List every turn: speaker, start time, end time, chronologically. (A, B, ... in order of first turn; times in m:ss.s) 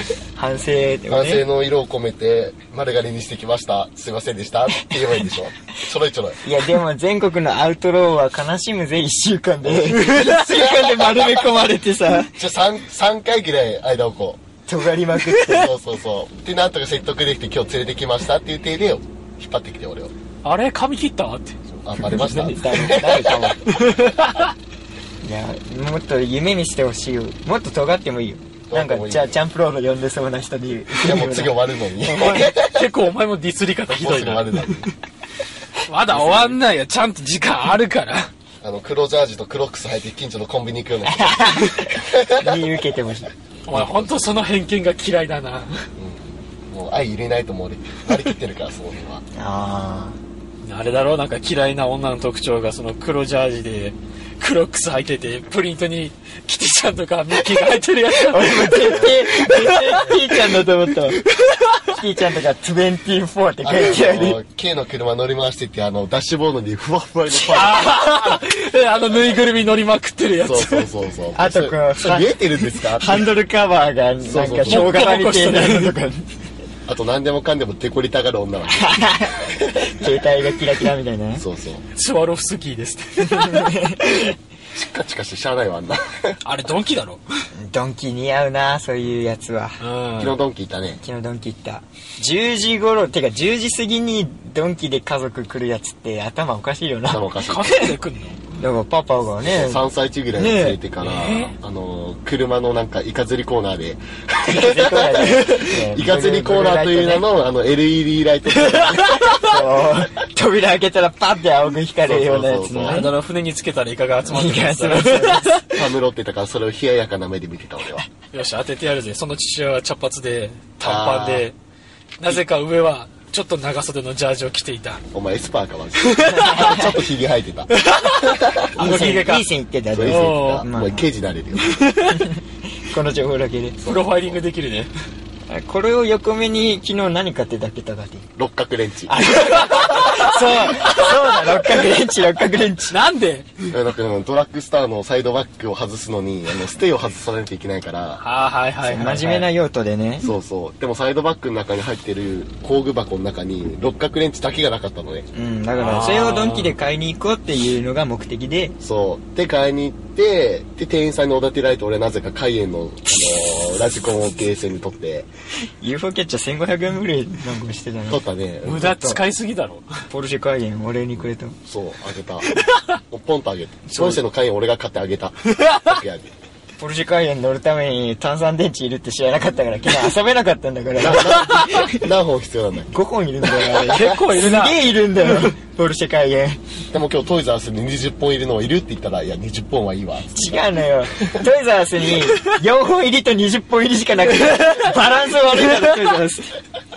0:00.4-0:01.4 A
0:01.1-0:06.4 B
0:06.4-0:12.4 A
0:09.7-0:11.5 B
0:12.3-0:14.4 B
0:14.7-0:15.7 A
0:15.5-0:20.1 B
0:20.4-0:21.6 C
0:21.7-0:23.5 B
0:22.0-0:23.8 A
0:23.6-0:24.5 C
0:25.2-0:32.5 A
0:28.7-0:29.4 B
0:31.0-0:32.8 B
0:32.1-0:34.7 C
0:33.9-0:34.9 B
0:35.8-0:38.3 C
0:36.1-0:36.6 B
0:38.6-0:42.6 B
0:41.1-0:43.3 A
0:43.7-0:45.8 C
0:43.7-0:44.4 B
0:46.0-0:49.2 B
0:49.4-0:50.2 A
0:50.6-1:00.4 C
0:58.1-1:01.2 A
0:58.9-0:59.2 B
1:01.3-1:01.9 C
1:01.8-1:04.4 A
1:03.6-1:08.4 B
1:07.4-1:10.9 C
1:10.4-1:13.3 B
1:11.3-1:16.3 A
1:14.2-1:15.1 B
1:14.4-1:15.9 C
1:16.8-1:18.9 B
1:18.7-1:21.4 A
1:19.5-1:19.9 B
1:21.4-1:21.8 B
1:21.9-1:23.8 C
1:23.2-1:24.3 A
1:24.7-1:26.4 B
1:26.4-1:27.2 C
1:27.6-1:29.8 A
1:29.8-1:30.4 C
1:30.2-1:31.0 B
1:31.0-1:37.2 A
1:37.1-1:38.0 B
1:37.4-1:38.4 C
1:38.6-1:40.8 A
1:39.4-1:49.5 B
1:41.0-1:41.6 C
1:44.4-1:47.3 A
1:48.7-1:49.4 C
1:49.4-1:53.1 A
1:52.0-1:53.1 B
1:52.8-1:55.6 C
1:54.2-1:55.8 A
1:55.7-1:58.0 B
1:58.3-2:01.5 C
2:00.8-2:01.5 B
2:02.2-2:05.0 C
2:05.1-2:07.7 B
2:06.1-2:06.7 C
2:06.3-2:06.8 A
2:07.7-2:09.5 C
2:08.3-2:08.7 B
2:08.8-2:11.1 A
2:09.9-2:11.7 B
2:10.0-2:10.6 C
2:11.6-2:12.2 C
2:12.0-2:13.8 A
2:13.8-2:14.4 B
2:13.8-2:14.9 C
2:15.5-2:18.3 A
2:18.4-2:19.2 B
2:19.1-2:23.0 A
2:19.4-2:21.1 C
2:22.9-2:23.5 C
2:23.7-2:28.2 B
2:28.2-2:29.5 C
2:28.8-2:30.3 A
2:30.2-2:35.2 B
2:35.3-2:38.8 A
2:35.7-2:36.8 C
2:38.8-2:45.3 B
2:45.8-2:48.2 A
2:48.1-2:49.1 B
2:48.6-2:49.9 C
2:48.9-2:49.2 A
2:50.1-2:51.6 A
2:51.6-2:52.5 B
2:52.5-2:52.8 C
2:53.1-2:56.3 B
2:53.9-2:54.2 A
2:55.5-2:55.9 C
2:56.8-3:02.0 A
3:01.0-3:02.9 B
3:02.9-3:06.6 A
3:03.5-3:04.2 B
3:03.8-3:04.8 C
3:06.9-3:10.5 B
3:10.3-3:16.5 A